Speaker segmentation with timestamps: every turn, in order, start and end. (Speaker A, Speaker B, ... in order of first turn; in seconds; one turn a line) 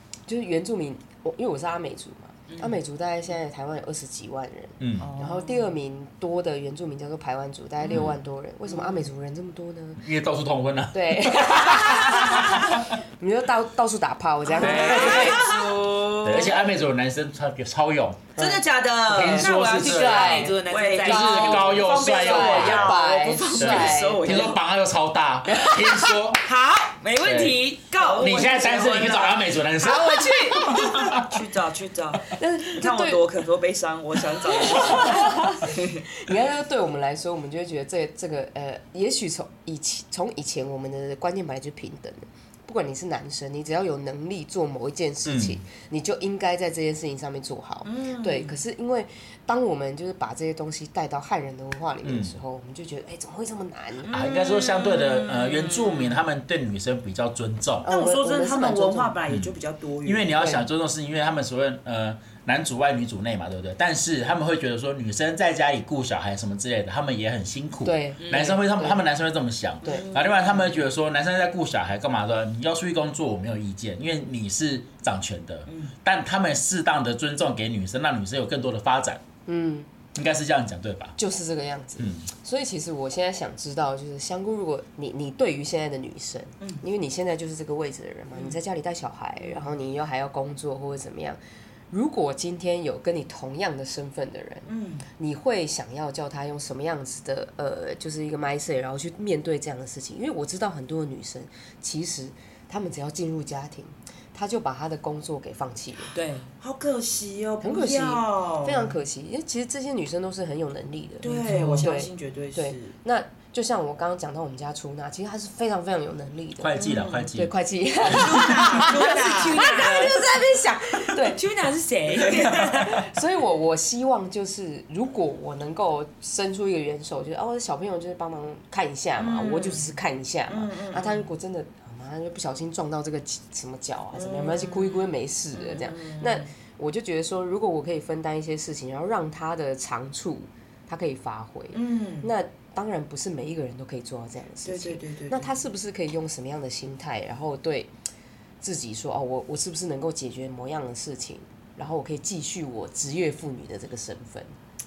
Speaker A: 0.3-10.0
Speaker B: 4.8-5.1
Speaker C: 5.1-5.4
Speaker D: 5.2-5.5
Speaker B: 7.9-8.2
Speaker D: 8.7-8.9
Speaker B: 10.0-12.8
Speaker A: 10.9-15.5
Speaker C: 14.6-16.2
Speaker B: 14.6-15.5
Speaker D: 14.6-16.6
Speaker B: 16.2-18.3
Speaker D: 18.4-19.5
Speaker B: 19.1-23.0
Speaker C: 19.3-21.8
Speaker A: 19.8-24.5
Speaker D: 20.6-24.6
Speaker B: 23.6-26.4
Speaker A: 25.5-25.8
Speaker C: 26.4-31.2
Speaker B: 27.2-27.6
Speaker D: 27.9-29.3
Speaker B: 28.2-31.3
Speaker D: 31.1-36.0
Speaker A: 32.3-33.2
Speaker A: 34.6-54.2
Speaker B: 45.2-45.6
Speaker D: 47.8-48.6
Speaker B: 52.0-52.4
Speaker D: 54.0-56.1
Speaker B: 54.1-57.9
Speaker A: 57.8-59.2
Speaker D: 57.8-60.5
Speaker B: 59.3-59.5
Speaker B: 60.0-79.2
Speaker A: 60.4-60.6
Speaker A: 67.8-69.0
Speaker C: 68.2-68.6
Speaker D: 69.8-70.7
Speaker A: 79.5-79.9
Speaker B: 80.1-81.1
Speaker A: 81.2-91.4
Speaker B: 82.0-82.3
Speaker A: 91.9-106.1
Speaker D: 94.7-95.0
Speaker C: 106.1-106.5
Speaker D: 106.6-108.9
Speaker A: 107.6-121.4
Speaker D: 111.2-112.9
Speaker C: 111.4-111.9
Speaker B: 116.6-118.6
Speaker D: 116.8-117.3
Speaker D: 118.0-119.9
Speaker C: 118.7-123.0
Speaker D: 122.2-122.6
Speaker A: 122.7-147.9
Speaker D: 129.2-131.3
Speaker D: 134.1-136.5
Speaker D: 141.7-142.3
Speaker D: 144.6-145.5
Speaker A: 148.6-154.5